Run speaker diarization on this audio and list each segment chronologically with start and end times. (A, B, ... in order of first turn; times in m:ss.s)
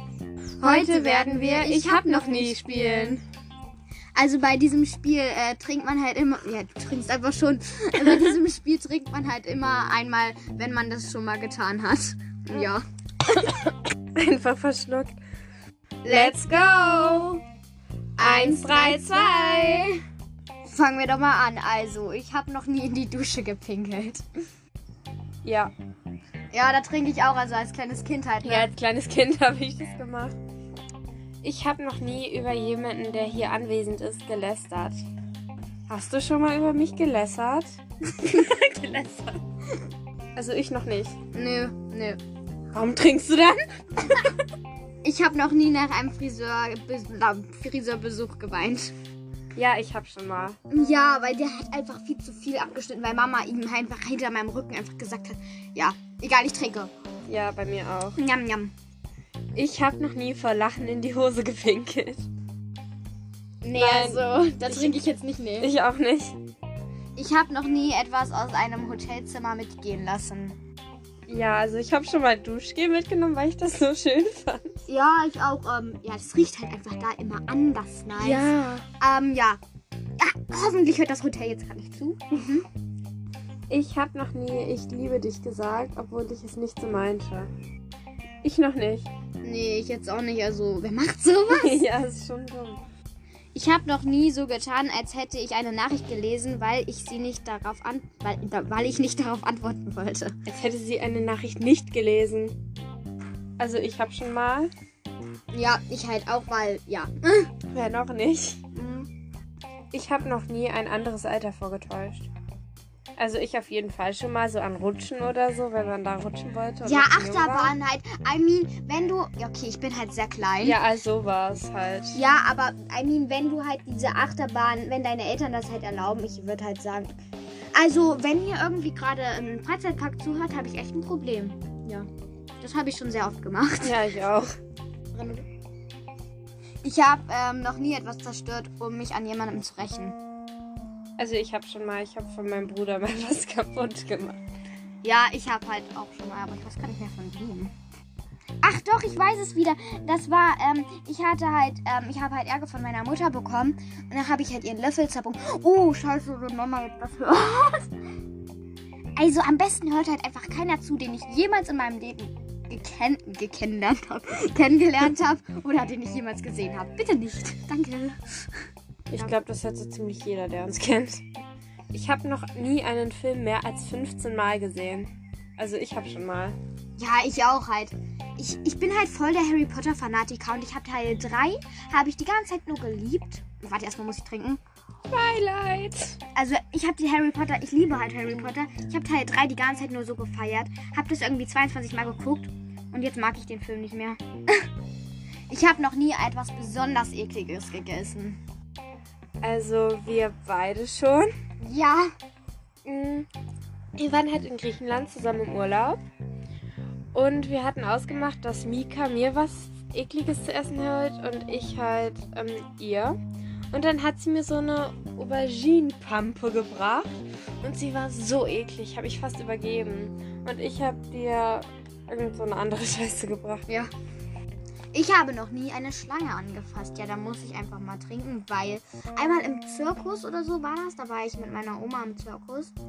0:00.6-0:03.2 A
0:00.6-0:03.2 B
0:04.1-0:12.8 B
0:14.1-0:15.2 A
0:16.0-0:17.3 B
0:16.1-0:17.4 A
0:18.2-0:19.9 A
0:18.2-0:20.0 B
0:20.6-0:24.2 B
0:25.4-0:25.7 A
0:26.5-0:28.7 B
0:28.4-0:30.4 A
0:31.4-0:35.0 A
0:35.9-0:39.4 A
0:40.4-0:41.2 A
0:41.3-0:42.2 B
0:42.7-0:44.3 A
0:45.0-0:48.9 B
0:49.6-0:50.6 A
0:50.7-0:56.9 B
0:57.3-0:58.2 A
0:58.2-0:58.7 B
0:59.5-1:02.3 A
1:03.6-1:05.7 B
1:03.7-1:05.0 A
1:05.6-1:06.4 A
1:07.2-1:10.6 B
1:11.3-1:14.8 A
1:14.9-1:19.6 B
1:18.2-1:18.8 A
1:20.2-1:22.7 B
1:23.7-1:27.5 A
1:28.4-1:29.1 A
1:29.4-1:31.8 B
1:31.5-1:32.8 A
1:33.5-1:40.3 B
1:40.5-1:42.6 A
1:43.6-1:44.7 A
1:45.5-1:47.5 B
1:47.7-1:48.7 A
1:48.8-1:49.1 B
1:49.9-1:52.3 A
1:53.2-1:57.8 A
1:56.8-2:00.8 B
2:00.6-2:02.2 A
2:02.1-2:07.1 B
2:07.7-2:12.1 B
2:12.6-2:14.0 B
2:13.8-2:14.5 A
2:15.1-2:15.5 B
2:16.8-2:20.2 B
2:21.2-2:24.4 A
2:25.0-2:27.7 B
2:28.6-2:37.9 B
2:39.2-2:48.6 B
2:49.1-2:51.2 A
2:51.9-2:56.6 A
2:57.0-3:04.6 B
3:05.1-3:06.2 A
3:06.3-3:14.7 B
3:15.5-3:18.4 B
3:19.4-3:21.3 A
3:21.6-3:22.1 B
3:22.8-3:23.3 A
3:24.0-3:26.0 A
3:27.1-3:33.2 A
3:33.7-3:37.1 A
3:37.6-3:43.7 A
3:44.9-3:52.7 B